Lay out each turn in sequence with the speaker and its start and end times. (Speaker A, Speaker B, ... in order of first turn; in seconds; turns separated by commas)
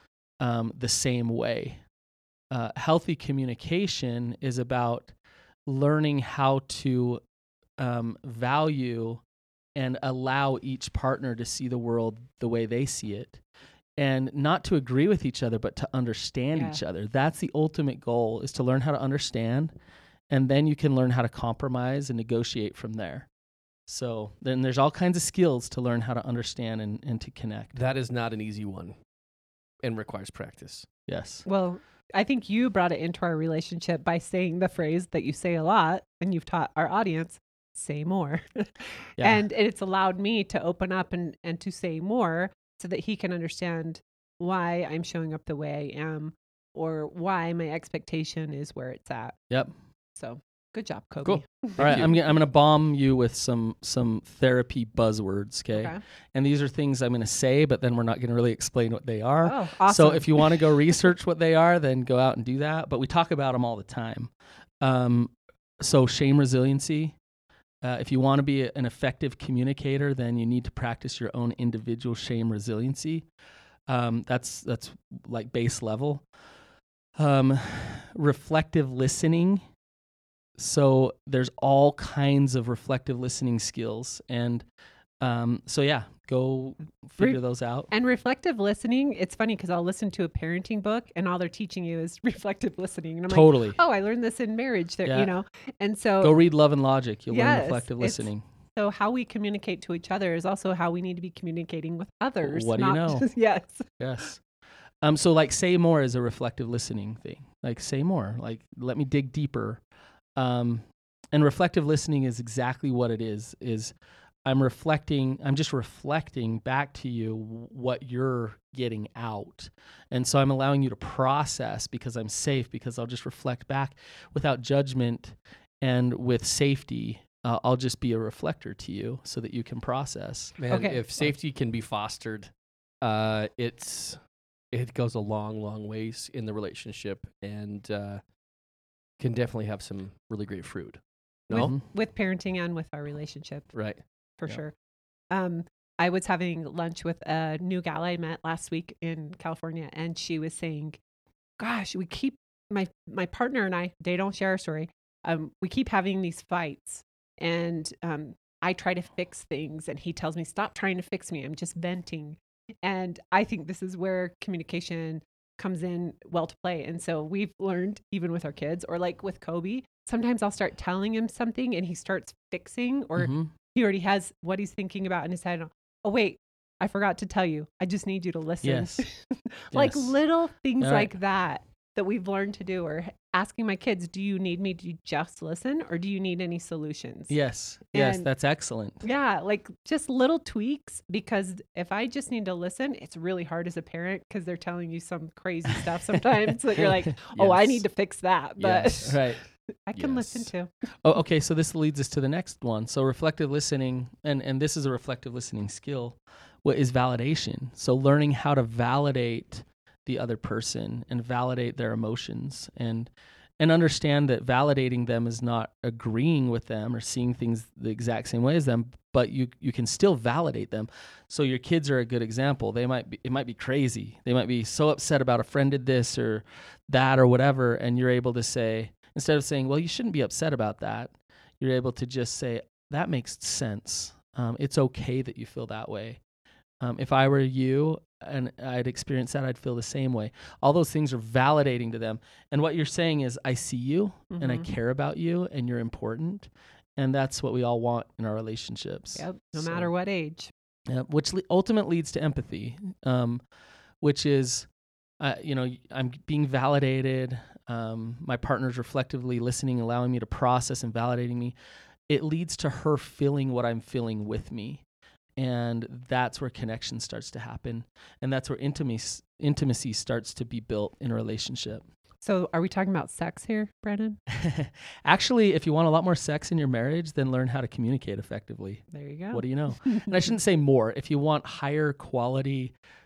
Speaker A: 0.4-1.8, Speaker A: 2.5-5.1, Speaker A: 5.7-7.2, Speaker A: 7.8-9.2, Speaker A: 9.8-13.4, Speaker A: 14.0-19.7, Speaker B: 16.5-16.8, Speaker A: 20.3-23.3, Speaker A: 23.9-27.7, Speaker C: 27.7-29.0, Speaker C: 29.8-30.9, Speaker A: 31.1-31.4, Speaker B: 31.4-49.4, Speaker A: 39.2-39.4, Speaker B: 50.2-52.0, Speaker C: 51.2-52.1, Speaker A: 51.8-67.2, Speaker B: 55.7-56.0, Speaker B: 59.4-60.8, Speaker A: 67.8-73.2, Speaker A: 73.9-76.2, Speaker A: 77.2-79.6, Speaker A: 80.6-84.6, Speaker A: 85.2-87.9, Speaker B: 87.2-96.4, Speaker A: 93.3-93.8, Speaker A: 95.0-95.3, Speaker A: 96.2-98.4, Speaker B: 97.3-103.9, Speaker A: 102.4-103.3, Speaker A: 104.0-104.4, Speaker A: 105.0-109.8, Speaker A: 110.3-113.9, Speaker A: 114.4-130.6, Speaker C: 130.6-134.2, Speaker B: 130.7-131.1, Speaker C: 134.7-138.2, Speaker C: 139.2-141.7, Speaker B: 141.5-143.7, Speaker A: 141.5-141.8, Speaker C: 143.7-144.0, Speaker B: 144.4-144.7, Speaker B: 145.3-151.0, Speaker B: 151.6-187.3, Speaker A: 173.2-173.5, Speaker A: 178.6-179.1, Speaker A: 179.7-180.2, Speaker A: 180.8-181.1, Speaker A: 187.3-189.0, Speaker B: 187.9-188.3, Speaker B: 189.0-200.7, Speaker A: 196.8-197.1, Speaker C: 197.3-197.8, Speaker C: 198.6-199.2, Speaker A: 199.0-199.4, Speaker C: 199.9-200.5, Speaker A: 201.0-236.2, Speaker A: 236.8-249.9, Speaker B: 244.3-244.7, Speaker B: 249.2-250.5, Speaker A: 250.9-253.4, Speaker A: 254.0-254.7, Speaker A: 255.2-261.6, Speaker A: 262.1-264.8, Speaker A: 265.4-271.8, Speaker B: 272.2-274.2, Speaker A: 274.3-282.7, Speaker B: 278.9-280.1